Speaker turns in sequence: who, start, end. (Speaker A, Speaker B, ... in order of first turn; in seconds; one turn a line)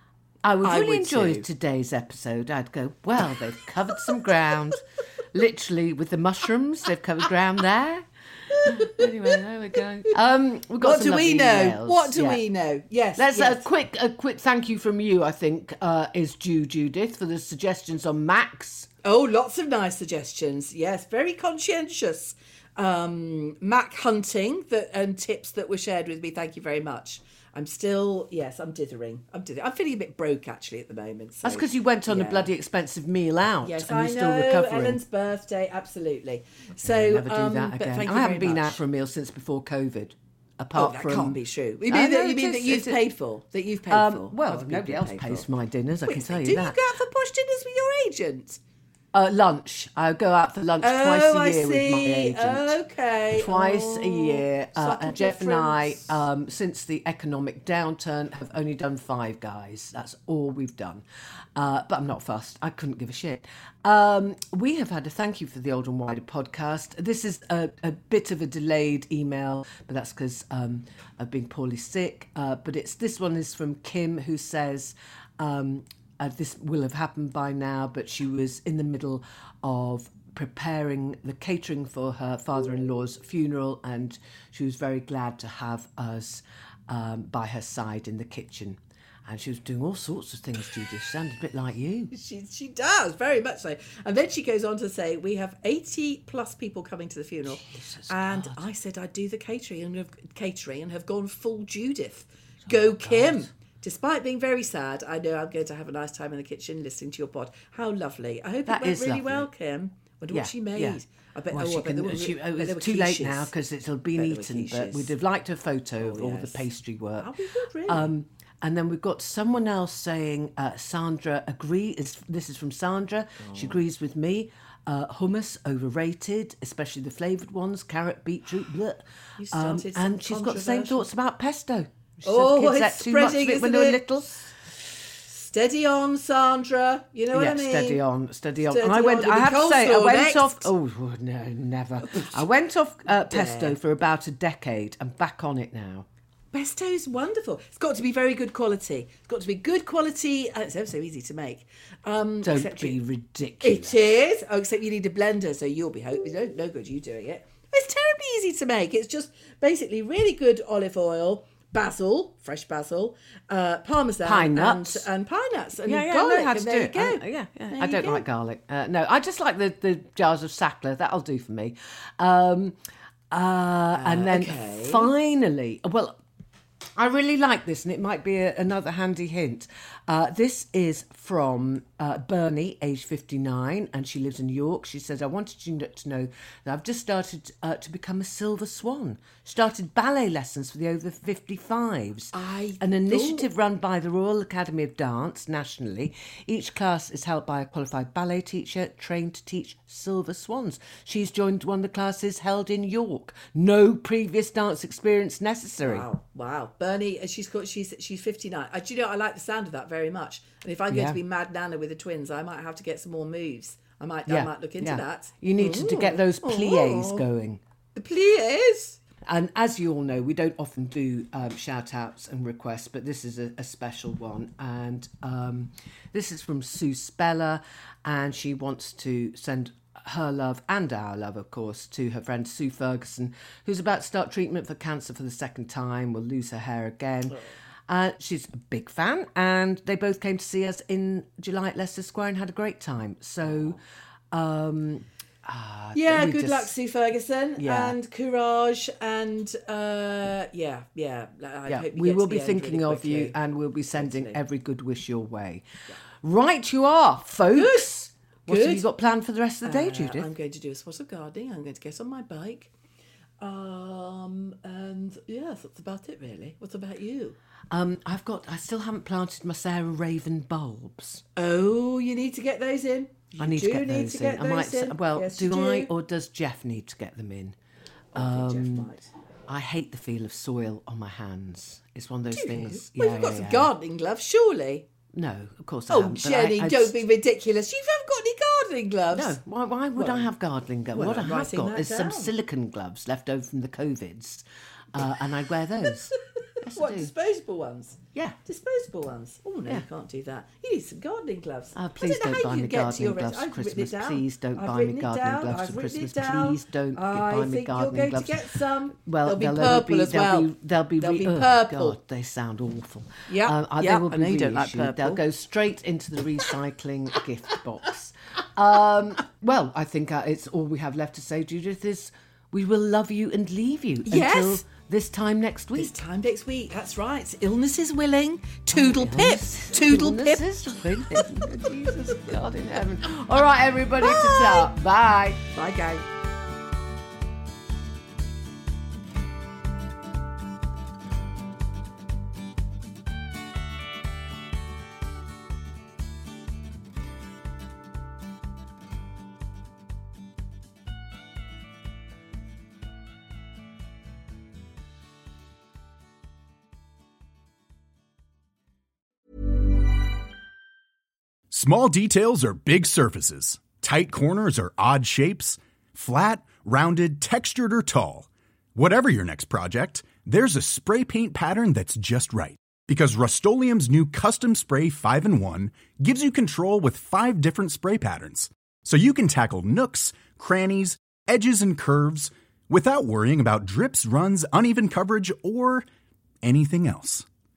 Speaker A: 0.4-12.4
Speaker B: 0.6-1.4
Speaker B: 8.5-9.4
Speaker B: 10.8-13.6
Speaker A: 13.2-18.9
Speaker B: 19.0-32.5
Speaker A: 31.4-35.0
Speaker B: 33.6-38.8
Speaker A: 36.8-43.0
Speaker B: 40.7-45.5
Speaker A: 43.9-46.8
Speaker B: 46.0-48.6
Speaker A: 49.1-52.8
Speaker B: 50.8-56.1
Speaker A: 53.3-61.0
Speaker A: 61.5-92.1
Speaker B: 92.1-113.5
Speaker A: 97.5-98.6
Speaker A: 102.6-103.5
Speaker A: 108.7-109.5
Speaker A: 110.3-111.0
Speaker A: 111.5-117.3
Speaker B: 114.2-115.1
Speaker B: 116.0-118.1
Speaker A: 117.9-134.4
Speaker B: 123.4-123.8
Speaker B: 129.4-131.1
Speaker B: 132.2-134.5
Speaker B: 135.2-138.0
Speaker A: 137.3-146.1
Speaker B: 138.7-140.7
Speaker B: 142.0-142.4
Speaker B: 143.3-143.8
Speaker B: 146.5-152.9
Speaker A: 152.4-154.0
Speaker B: 153.6-168.2
Speaker A: 164.2-165.1
Speaker A: 165.8-172.8
Speaker A: 173.3-176.2
Speaker B: 173.9-175.1
Speaker A: 176.9-206.1
Speaker B: 192.3-193.4
Speaker B: 205.8-217.2
Speaker A: 210.9-211.2
Speaker A: 214.3-217.6
Speaker B: 217.9-219.0
Speaker A: 219.3-243.8
Speaker A: 244.3-246.7
Speaker B: 245.9-253.3
Speaker A: 247.6-247.9
Speaker A: 251.7-255.6
Speaker B: 254.0-254.4
Speaker A: 256.2-260.3
Speaker B: 257.5-258.9
Speaker B: 259.6-262.7
Speaker B: 263.4-267.4
Speaker A: 267.7-271.2
Speaker B: 271.4-275.9
Speaker A: 273.4-277.6
Speaker A: 278.1-278.9
Speaker B: 278.1-279.1
Speaker A: 279.5-283.7
Speaker B: 282.3-284.9
Speaker A: 285.1-287.0
Speaker B: 285.9-289.4
Speaker A: 289.1-297.1
Speaker B: 289.9-290.3
Speaker B: 290.9-292.3
Speaker B: 295.9-312.0
Speaker A: 301.7-308.4
Speaker A: 308.9-326.0
Speaker B: 313.3-315.2
Speaker B: 324.1-324.6
Speaker B: 325.7-331.4
Speaker A: 328.7-335.4
Speaker B: 334.0-334.7
Speaker B: 335.5-336.0
Speaker C: 361.5-385.9
Speaker C: 386.4-387.2